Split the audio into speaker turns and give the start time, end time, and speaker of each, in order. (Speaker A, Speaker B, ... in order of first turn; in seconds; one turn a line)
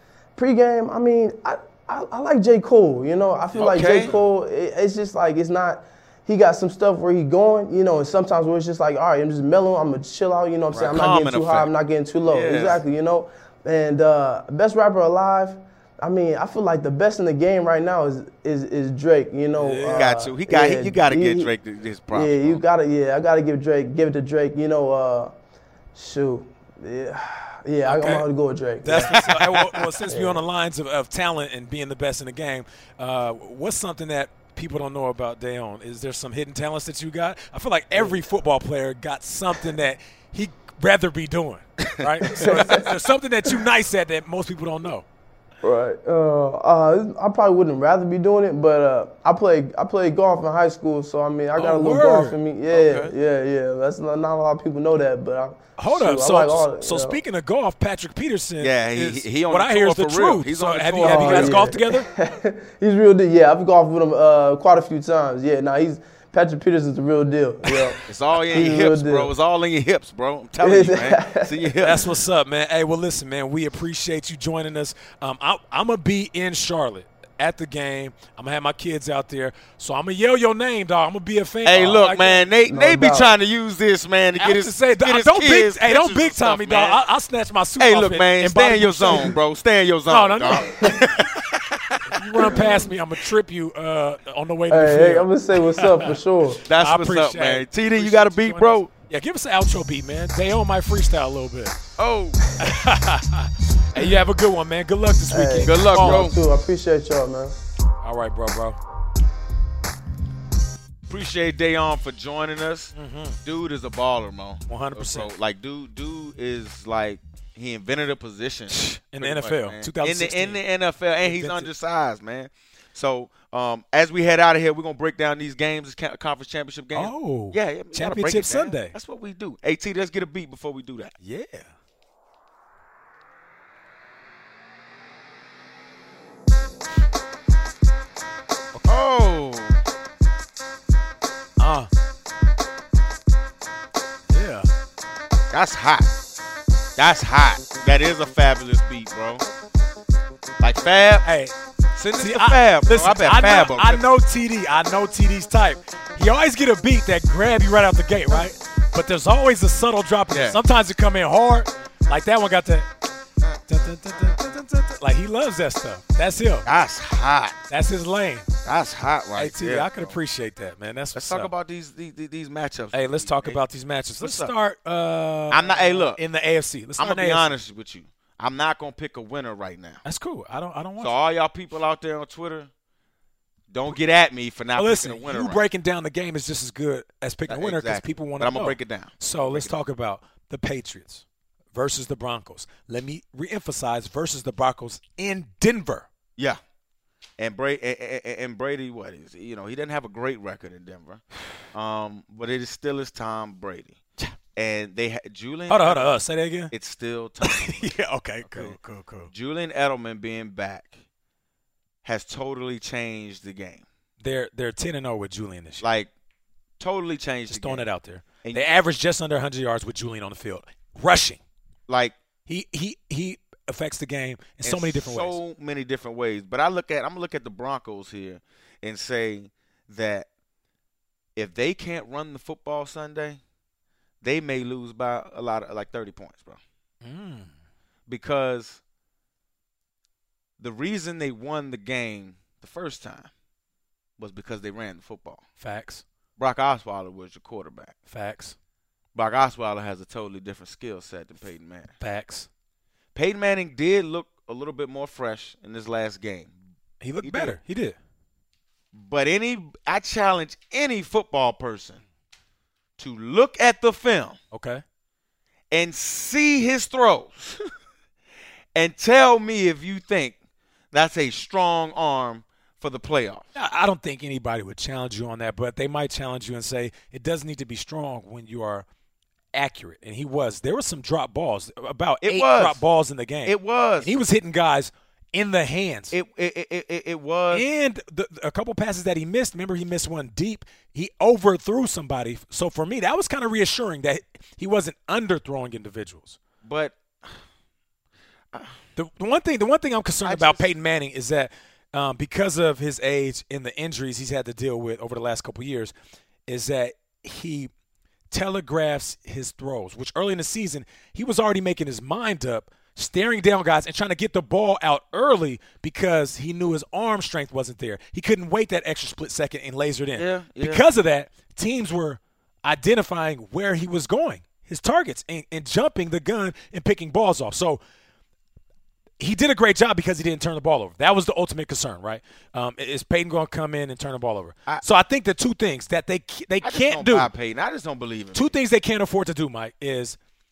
Speaker A: 0.3-21.5
Speaker B: 3.5-4.2
Speaker B: 10.8-11.7
Speaker B: 12.2-12.8
Speaker C: 19.6-20.1
Speaker B: 19.8-22.6
Speaker A: 22.1-25.3
Speaker A: 25.9-30.4
Speaker C: 27.8-28.3
Speaker C: 28.8-45.0
Speaker B: 28.9-29.4
Speaker A: 37.9-38.2
Speaker B: 41.8-42.5
Speaker A: 42.2-42.9
Speaker A: 45.6-57.2
Speaker C: 51.6-52.4
Speaker B: 52.7-53.1
Speaker C: 55.8-62.1
Speaker B: 58.6-61.8
Speaker A: 61.0-69.3
Speaker B: 68.1-72.0
Speaker A: 70.6-71.7
Speaker C: 71.8-82.3
Speaker B: 81.6-87.0
Speaker A: 82.6-83.3
Speaker C: 84.4-89.3
Speaker B: 87.8-92.6
Speaker C: 90.1-90.7
Speaker A: 90.6-91.0
Speaker C: 92.1-96.2
Speaker A: 92.5-92.8
Speaker A: 94.7-96.7
Speaker B: 96.7-98.9
Speaker C: 96.7-101.8
Speaker B: 102.0-102.4
Speaker C: 102.6-106.3
Speaker A: 105.3-107.5
Speaker B: 105.6-106.4
Speaker C: 108.0-108.8
Speaker B: 111.1-131.1
Speaker C: 112.9-113.4
Speaker C: 114.7-115.3
Speaker C: 118.7-120.6
Speaker C: 121.2-121.7
Speaker C: 126.9-128.9
Speaker C: 131.2-131.7
Speaker B: 138.8-139.8
Speaker C: 141.6-141.9
Speaker C: 144.3-144.7
Speaker B: 145.5-146.1
Speaker B: 146.9-149.4
Speaker B: 150.6-151.2
Speaker C: 151.2-162.9
Speaker B: 152.0-154.0
Speaker B: 160.3-160.6
Speaker C: 163.7-166.7
Speaker B: 166.6-167.6
Speaker C: 167.7-168.5
Speaker B: 168.6-170.1
Speaker C: 169.3-171.5
Speaker B: 171.1-173.6
Speaker C: 172.9-177.6
Speaker B: 174.2-174.5
Speaker B: 175.5-176.2
Speaker B: 177.0-180.0
Speaker C: 180.0-181.1
Speaker B: 181.0-182.7
Speaker B: 183.7-185.6
Speaker C: 184.7-196.1
Speaker B: 187.5-189.8
Speaker B: 197.4-201.2
Speaker B: 201.7-204.0
Speaker B: 204.6-206.1
Speaker C: 205.7-206.7
Speaker B: 206.7-208.8
Speaker C: 207.4-209.3
Speaker B: 209.3-211.0
Speaker B: 212.0-213.8
Speaker C: 214.2-215.8
Speaker B: 215.8-216.1
Speaker B: 216.8-217.8
Speaker C: 217.5-221.4
Speaker B: 221.9-222.2
Speaker C: 222.5-225.4
Speaker B: 224.6-230.3
Speaker B: 231.3-233.4
Speaker B: 234.2-236.6
Speaker C: 237.0-237.5
Speaker B: 238.1-238.8
Speaker B: 240.6-243.3
Speaker B: 244.2-245.4
Speaker C: 245.6-246.0
Speaker B: 246.4-247.9
Speaker C: 248.1-248.6
Speaker B: 249.1-251.9
Speaker C: 252.0-252.5
Speaker B: 253.1-256.5
Speaker C: 257.0-257.9
Speaker B: 257.2-257.6
Speaker B: 258.9-262.0
Speaker B: 263.0-264.4
Speaker C: 264.5-264.8
Speaker B: 265.7-267.6
Speaker B: 268.7-270.4
Speaker B: 270.9-273.5
Speaker C: 273.5-278.9
Speaker C: 279.5-286.1
Speaker B: 282.2-282.8
Speaker B: 283.4-284.2
Speaker B: 286.1-287.6
Speaker C: 287.5-296.4
Speaker B: 296.6-297.4
Speaker B: 298.5-298.8
Speaker C: 298.9-305.9
Speaker B: 300.2-300.7
Speaker C: 306.5-307.7
Speaker C: 308.3-327.8
Speaker B: 320.1-320.8
Speaker C: 329.2-337.3
Speaker B: 336.6-338.5
Speaker C: 338.3-340.2